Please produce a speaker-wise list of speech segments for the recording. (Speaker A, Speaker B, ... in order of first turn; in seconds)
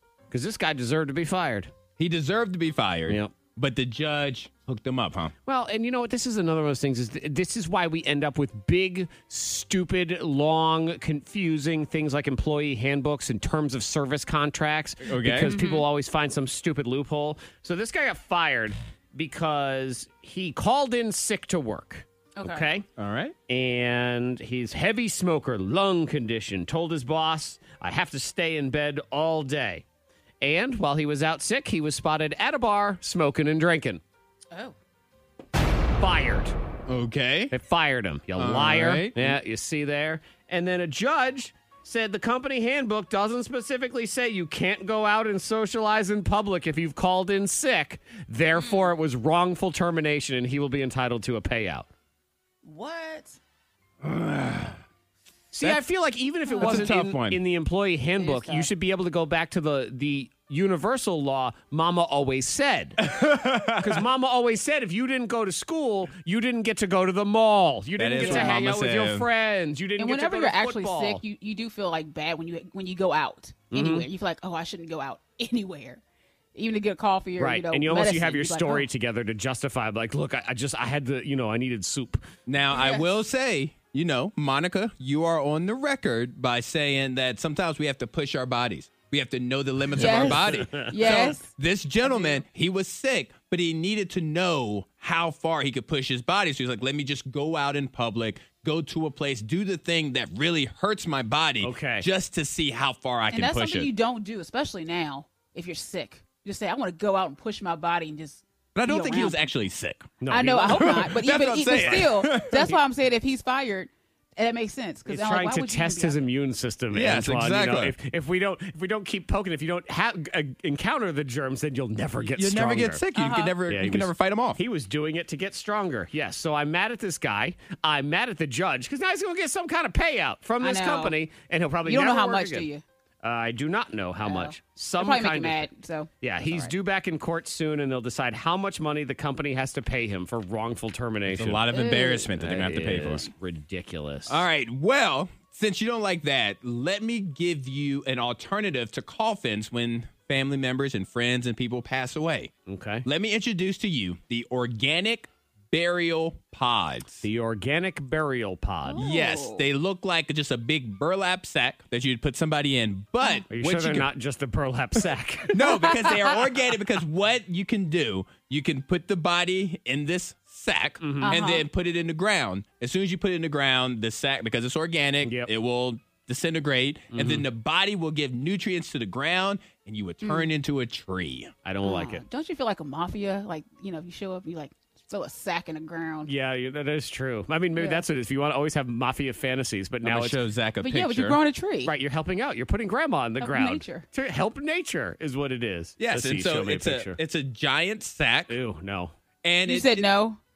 Speaker A: 0.3-1.7, 3.1-3.3, 5.5-22.9, 23.5-29.8, 30.4-34.0, 36.0-36.5, 37.5-51.9, 55.5-63.1, 63.7-71.2, 73.7-74.0, 77.4-82.2, 90.0-91.4, 101.6-102.1, 110.2-111.1, 111.7-112.0, 115.0-123.0, 123.7-132.7, 133.2-135.7, 136.2-141.6, 142.4-144.4, 152.7-153.1, 157.2-159.0, 163.5-165.9, 171.0-171.4, 175.2-175.5, 177.1-177.4, 181.6-182.2, 186.2-190.4, 191.8-197.2, 198.5-199.1
Speaker B: 2.0-5.3, 15.0-15.5, 23.0-23.3, 36.9-37.5, 38.3-39.4, 54.0-54.7, 56.6-57.4, 63.0-64.0, 68.0-69.3, 82.5-103.9, 108.7-112.7, 116.9-118.0, 122.4-124.6, 141.3-143.3, 144.3-152.5, 153.0-157.2, 159.0-164.1, 165.5-181.5, 190.0-191.4, 196.0-198.6, 199.4-200.1
Speaker C: 15.4-15.8, 22.4-22.7, 48.5-48.9, 52.6-53.4, 56.5-56.9, 58.2-58.7, 68.2-68.6, 70.0-76.0, 76.5-78.9, 82.7-83.0, 90.0-91.5, 103.3-109.4, 110.3-116.2, 123.1-123.5, 130.6-131.2, 131.9-132.8, 134.2-136.7, 141.7-142.2, 158.9-159.6, 171.2-171.7, 180.2-180.5, 181.8-186.3, 187.8-188.0, 190.8-191.9, 193.4-194.0, 199.7-200.4